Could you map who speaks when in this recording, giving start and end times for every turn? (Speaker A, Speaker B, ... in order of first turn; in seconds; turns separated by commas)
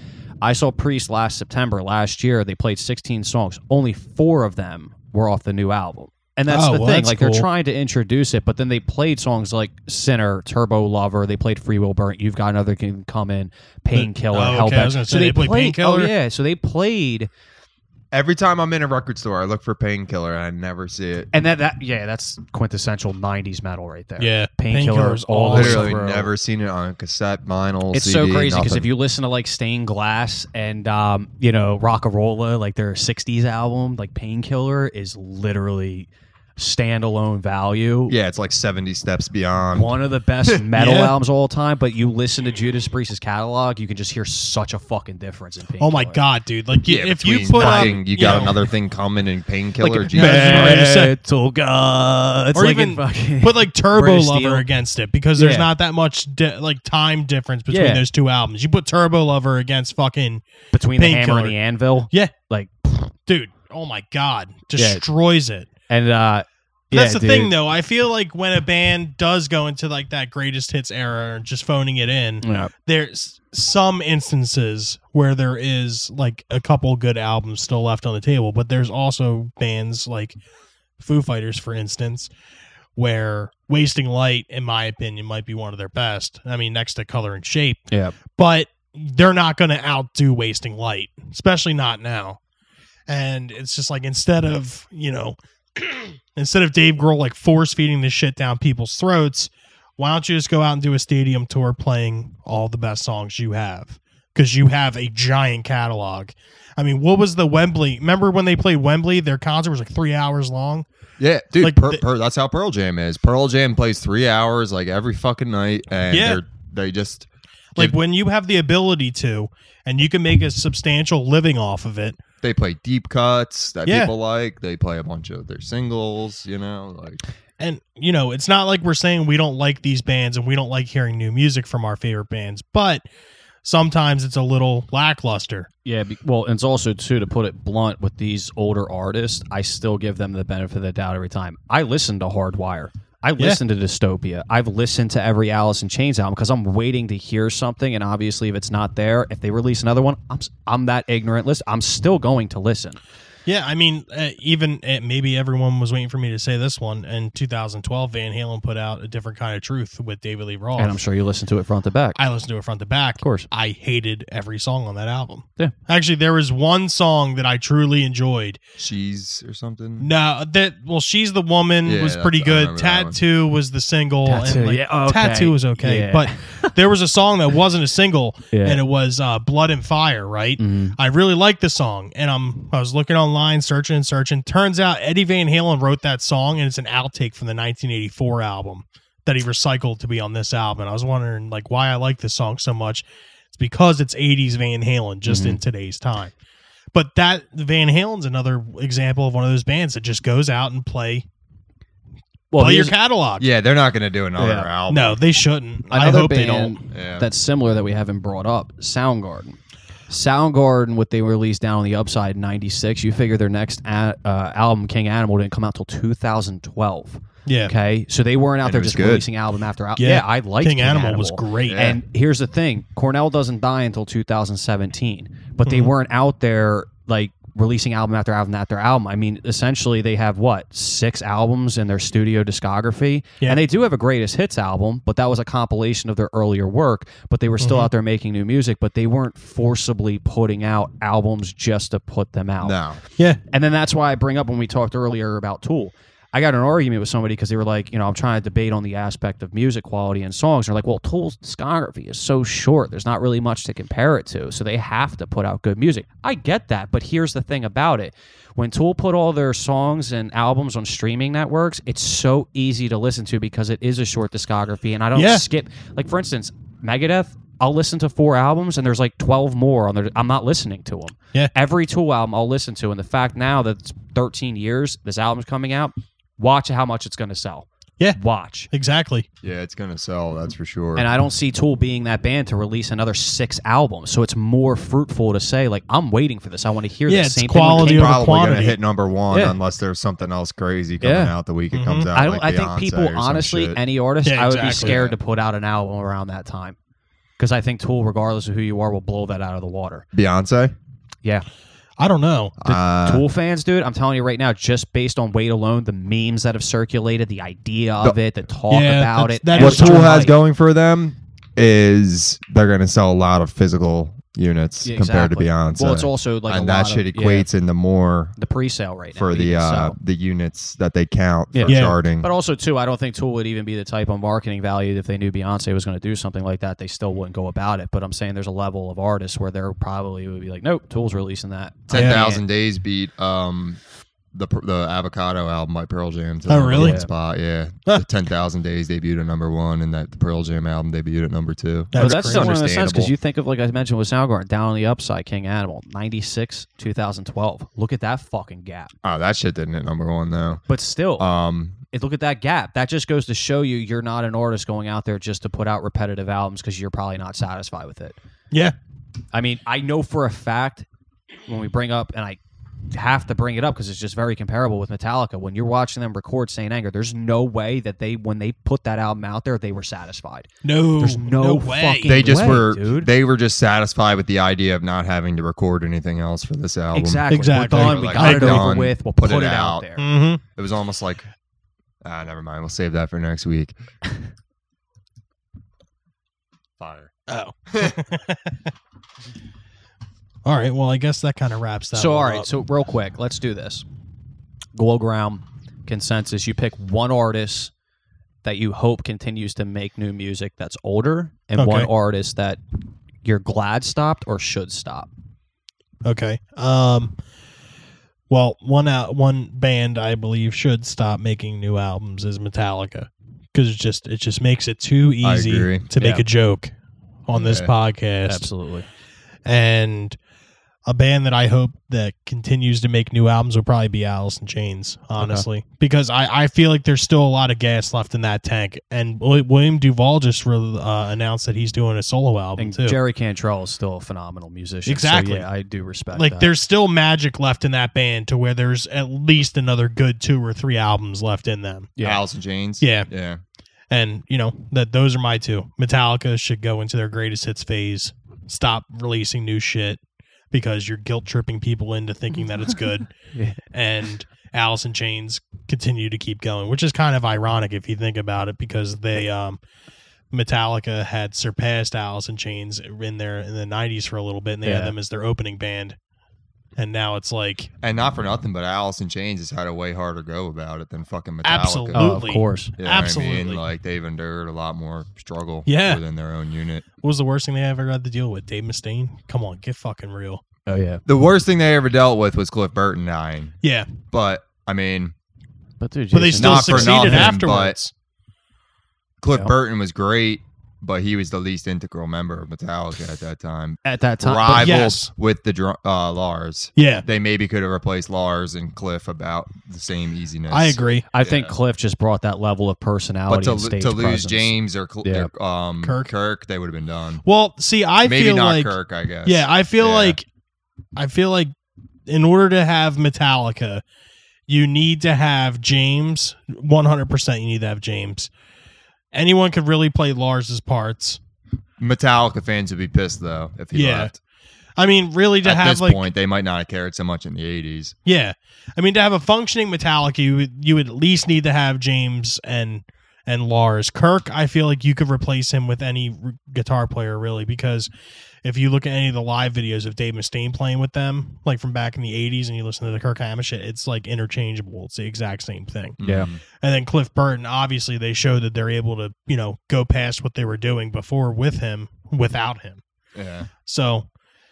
Speaker A: 0.4-17.3, Speaker B: 6.5-7.5, Speaker B: 13.9-16.1, Speaker C: 18.1-21.3, Speaker A: 21.3-26.3, Speaker B: 24.2-25.9, Speaker C: 25.5-28.9, Speaker A: 27.9-38.2, Speaker C: 38.1-40.6, Speaker A: 39.7-46.2, Speaker B: 40.7-41.1, Speaker B: 45.8-48.6, Speaker C: 46.9-50.8, Speaker A: 47.5-48.7, Speaker A: 49.8-54.6, Speaker B: 50.1-51.1, Speaker B: 52.5-60.4, Speaker A: 55.4-55.7, Speaker A: 57.7-58.0, Speaker A: 60.7-63.0, Speaker B: 61.0-61.6, Speaker B: 63.0-65.7, Speaker A: 64.7-65.0, Speaker A: 65.9-67.5, Speaker B: 66.9-80.4, Speaker A: 72.4-72.7, Speaker B: 81.0-82.3, Speaker B: 83.0-92.4, Speaker A: 87.9-88.2, Speaker B: 93.1-110.9, Speaker C: 111.2-118.0, Speaker B: 111.6-112.0, Speaker B: 116.1-116.4, Speaker B: 117.8-122.2, Speaker C: 122.4-127.2, Speaker B: 123.9-124.1, Speaker B: 127.6-133.1, Speaker B: 133.6-135.7, Speaker A: 135.8-153.0, Speaker B: 153.4-161.0, Speaker A: 160.8-162.2, Speaker B: 162.2-168.6, Speaker A: 163.2-163.5, Speaker C: 168.8-170.1, Speaker B: 170.0-196.3, Speaker C: 171.8-173.2, Speaker A: 174.2-176.7, Speaker A: 178.5-178.8, Speaker A: 180.6-181.0, Speaker A: 195.3-195.6, Speaker B: 196.9-201.3, Speaker A: 202.5-202.9, Speaker B: 202.6-203.5, Speaker C: 203.4-205.2, Speaker A: 204.4-204.7, Speaker B: 204.9-206.8, Speaker A: 205.9-242.8, Speaker C: 206.9-207.3, Speaker B: 217.4-217.7, Speaker C: 218.6-219.3, Speaker B: 220.0-221.9, Speaker C: 221.7-222.0, Speaker B: 225.6-225.9, Speaker B: 237.6-237.9, Speaker C: 242.6-243.0, Speaker A: 243.5-278.7, Speaker B: 265.1-265.4, Speaker B: 278.7-279.3, Speaker C: 279.4-281.1, Speaker A: 280.9-288.2, Speaker B: 287.1-288.8, Speaker C: 287.7-293.8, Speaker A: 289.3-289.6, Speaker A: 291.0-291.4, Speaker B: 291.7-292.1, Speaker A: 292.1-296.8, Speaker B: 294.2-295.0, Speaker C: 294.7-295.2, Speaker A: 297.4-300.1, Speaker C: 300.1-300.7, Speaker B: 302.0-302.6, Speaker C: 302.6-303.2, Speaker A: 302.6-310.4, Speaker B: 308.7-310.2, Speaker C: 309.6-318.4, Speaker A: 314.8-317.5, Speaker A: 318.4-319.9, Speaker C: 319.1-322.3, Speaker A: 321.5-332.4, Speaker B: 321.7-322.0, Speaker C: 331.9-333.8, Speaker B: 331.9-332.2, Speaker C: 334.3-343.1, Speaker B: 336.5-337.0, Speaker A: 336.7-337.1, Speaker B: 341.9-342.5, Speaker A: 341.9-348.9, Speaker C: 349.0-350.6, Speaker A: 350.7-351.3, Speaker C: 351.2-351.8, Speaker A: 351.9-358.2, Speaker A: 359.3-360.9, Speaker A: 361.5-362.4, Speaker A: 362.9-373.1, Speaker B: 370.6-372.4, Speaker C: 372.1-379.9, Speaker A: 376.9-380.1, Speaker B: 377.3-378.7, Speaker B: 380.0-380.4, Speaker C: 380.5-381.3, Speaker C: 382.0-383.7, Speaker C: 386.8-387.1, Speaker B: 387.3-388.7, Speaker C: 387.7-388.0, Speaker B: 390.4-392.5, Speaker A: 391.9-393.9, Speaker A: 394.7-397.7, Speaker A: 398.4-402.6, Speaker B: 401.6-401.9, Speaker A: 403.2-405.1, Speaker B: 406.1-407.2, Speaker B: 408.3-416.7, Speaker C: 415.2-415.9, Speaker A: 416.0-416.2, Speaker B: 417.3-418.5, Speaker C: 417.3-417.7, Speaker A: 418.3-418.9, Speaker B: 419.4-420.2, Speaker B: 420.9-433.0, Speaker A: 425.2-425.4, Speaker A: 432.6-436.5, Speaker B: 434.9-435.5, Speaker B: 436.1-441.9, Speaker A: 442.0-442.2, Speaker C: 442.0-443.4, Speaker B: 442.8-443.1, Speaker B: 443.9-453.1, Speaker A: 453.3-453.6, Speaker B: 453.7-459.6, Speaker B: 460.3-466.0, Speaker A: 464.6-464.9, Speaker B: 466.8-467.7, Speaker C: 467.8-472.1, Speaker B: 471.4-473.6, Speaker A: 471.9-472.7, Speaker C: 472.8-476.9, Speaker B: 475.7-476.0, Speaker B: 477.0-480.4, Speaker A: 480.7-481.0, Speaker C: 481.1-485.1, Speaker B: 483.6-483.9, Speaker A: 485.8-487.4, Speaker B: 486.1-487.9, Speaker C: 486.4-487.8, Speaker C: 489.2-501.5, Speaker A: 493.9-494.8, Speaker B: 494.6-495.1, Speaker B: 496.8-497.1, Speaker B: 500.5-501.1, Speaker A: 501.1-505.3, Speaker C: 503.3-507.2, Speaker B: 505.8-506.1, Speaker B: 507.2-510.2, Speaker C: 508.0-510.2, Speaker B: 510.9-511.5, Speaker B: 512.1-513.8, Speaker B: 514.5-518.3, Speaker B: 519.1-521.2, Speaker C: 521.8-524.2, Speaker B: 523.7-524.1, Speaker B: 524.8-526.0, Speaker C: 525.4-527.9, Speaker B: 528.1-537.9, Speaker B: 538.4-546.0, Speaker C: 546.0-546.4, Speaker A: 546.0-546.3, Speaker B: 546.5-552.8, Speaker C: 553.1-553.5, Speaker B: 553.6-554.1